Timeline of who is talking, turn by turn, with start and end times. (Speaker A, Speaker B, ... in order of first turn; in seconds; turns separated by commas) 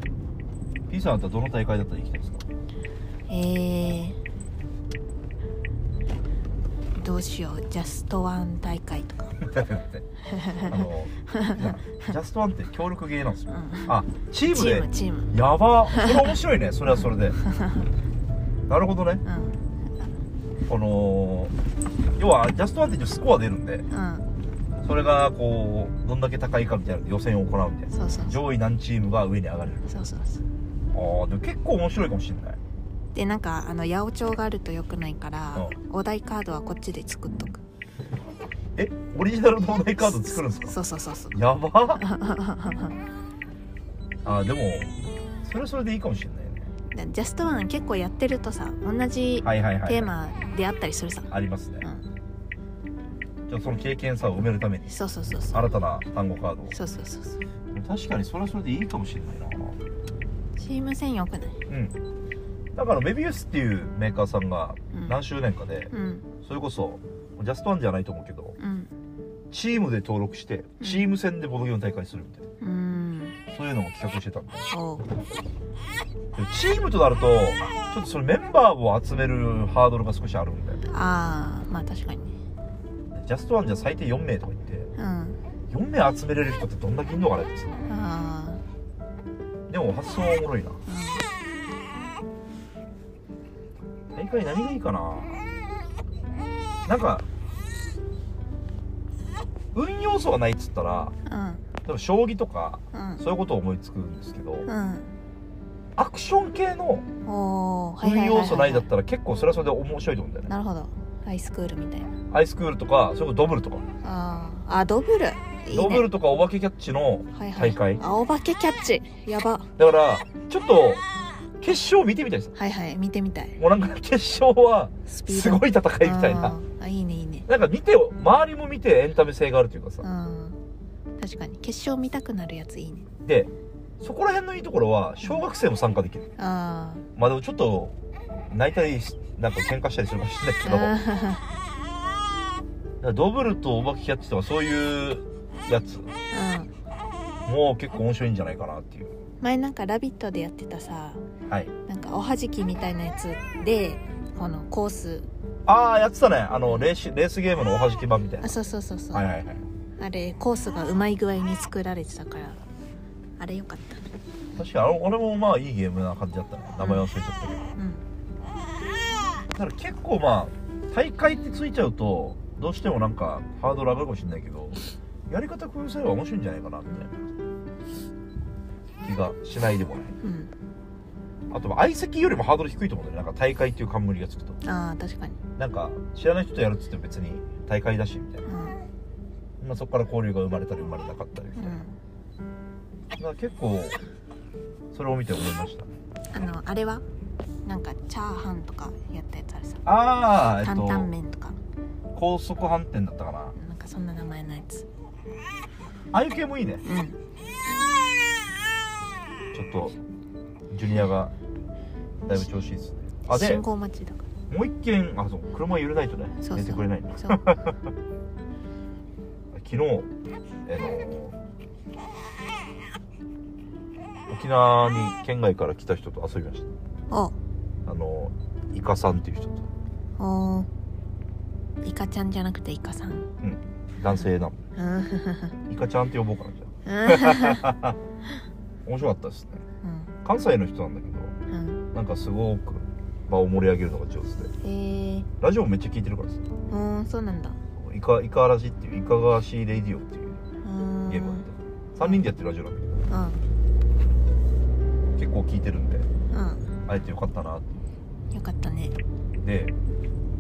Speaker A: 0.9-2.5, Speaker B: 3.3-4.2, Speaker B: 7.0-9.4, Speaker A: 9.4-10.1, Speaker B: 10.3-10.8, Speaker A: 10.6-17.4, Speaker B: 11.3-11.7, Speaker B: 13.5-13.9, Speaker B: 14.5-15.3, Speaker B: 15.9-16.3, Speaker B: 17.5-17.8, Speaker A: 18.7-19.2, Speaker B: 19.2-20.1, Speaker A: 20.7-21.5, Speaker A: 22.2-23.9, Speaker B: 23.9-24.3, Speaker A: 24.8-30.1, Speaker B: 27.9-28.4, Speaker B: 29.9-30.4, Speaker A: 30.9-32.6, Speaker B: 33.1-37.6, Speaker A: 38.8-40.8, Speaker B: 40.0-41.4, Speaker A: 41.3-42.0, Speaker B: 42.0-43.0, Speaker A: 44.2-46.7, Speaker B: 46.9-52.0, Speaker A: 49.4-50.1, Speaker A: 51.3-51.9, Speaker A: 53.5-55.0, Speaker B: 54.9-55.7, Speaker A: 55.5-56.8, Speaker B: 56.7-57.4, Speaker A: 57.7-59.8, Speaker B: 60.6-61.6, Speaker A: 61.7-62.0, Speaker A: 62.8-68.6, Speaker B: 65.9-66.3, Speaker B: 68.6-68.9, Speaker A: 69.5-72.5, Speaker B: 70.8-71.1, Speaker B: 72.6-73.4, Speaker A: 73.5-74.7, Speaker B: 74.7-75.1, Speaker A: 76.3-80.8, Speaker B: 80.9-82.4, Speaker A: 83.1-84.9, Speaker B: 85.0-85.4, Speaker A: 85.7-87.8, Speaker B: 87.9-88.6, Speaker A: 89.7-90.8, Speaker B: 90.9-91.3, Speaker A: 94.1-95.4, Speaker A: 96.9-97.3, Speaker A: 99.7-101.2, Speaker B: 101.3-101.6, Speaker A: 101.8-104.7, Speaker B: 102.9-103.2, Speaker B: 104.7-105.1, Speaker A: 106.0-107.1, Speaker B: 107.2-108.9, Speaker A: 108.0-110.5, Speaker B: 110.5-112.1, Speaker A: 112.3-113.8, Speaker B: 114.0-116.1, Speaker A: 115.7-118.0, Speaker B: 117.3-119.7, Speaker A: 119.8-121.0, Speaker A: 121.6-122.5, Speaker B: 122.6-123.6, Speaker A: 123.6-126.6, Speaker B: 125.1-127.5, Speaker A: 127.5-130.1, Speaker B: 130.0-130.6, Speaker B: 131.2-133.1, Speaker A: 133.2-136.3, Speaker B: 136.4-137.1, Speaker A: 137.2-137.9, Speaker A: 138.5-140.9, Speaker B: 140.6-141.4, Speaker A: 143.0-146.1, Speaker B: 146.3-146.7, Speaker A: 147.5-149.2, Speaker B: 149.4-151.2, Speaker A: 151.5-151.7, Speaker B: 151.9-155.3, Speaker A: 155.7-158.5, Speaker B: 158.4-159.3, Speaker A: 159.1-159.6, Speaker B: 160.0-162.7, Speaker B: 163.4-164.1, Speaker A: 164.6-167.7, Speaker B: 166.8-167.1, Speaker B: 167.8-168.0, Speaker A: 169.6-177.2, Speaker A: 179.0-180.2, Speaker B: 180.2-180.5, Speaker A: 181.5-184.6, Speaker B: 184.6-185.4, Speaker A: 185.6-188.5, Speaker B: 188.5-188.8, Speaker A: 189.6-191.8, Speaker B: 191.6-192.0, Speaker A: 193.2-194.0, Speaker A: 194.9-195.9, Speaker B: 196.3-197.0, Speaker B: 197.7-199.8, Speaker A: 199.8-201.1, Speaker B: 200.4-201.6, Speaker A: 202.1-203.6, Speaker B: 203.6-204.9, Speaker A: 206.1-206.8, Speaker B: 206.8-207.2, Speaker A: 209.5-210.0, Speaker A: 210.7-211.3, Speaker A: 212.3-213.6, Speaker B: 213.2-214.3, Speaker A: 214.5-217.7, Speaker B: 216.4-217.4, Speaker A: 219.5-220.1, Speaker A: 220.7-221.4, Speaker A: 224.3-226.7, Speaker B: 227.1-227.4, Speaker A: 227.9-229.7, Speaker B: 230.2-230.7, Speaker B: 231.8-233.3, Speaker A: 233.4-234.6, Speaker B: 234.8-235.6, Speaker A: 235.7-238.0, Speaker B: 236.9-237.6, Speaker A: 238.8-239.6, Speaker B: 239.8-240.1, Speaker A: 240.2-241.3, Speaker B: 241.5-241.8, Speaker A: 241.9-244.5, Speaker B: 244.6-245.3, Speaker A: 245.4-246.4, Speaker B: 246.7-247.6, Speaker A: 247.8-250.4, Speaker B: 250.6-251.4, Speaker A: 251.1-253.0, Speaker B: 253.1-253.4, Speaker A: 255.2-256.1, Speaker B: 256.3-256.7, Speaker A: 256.9-257.7, Speaker B: 258.3-259.0, Speaker A: 259.4-259.8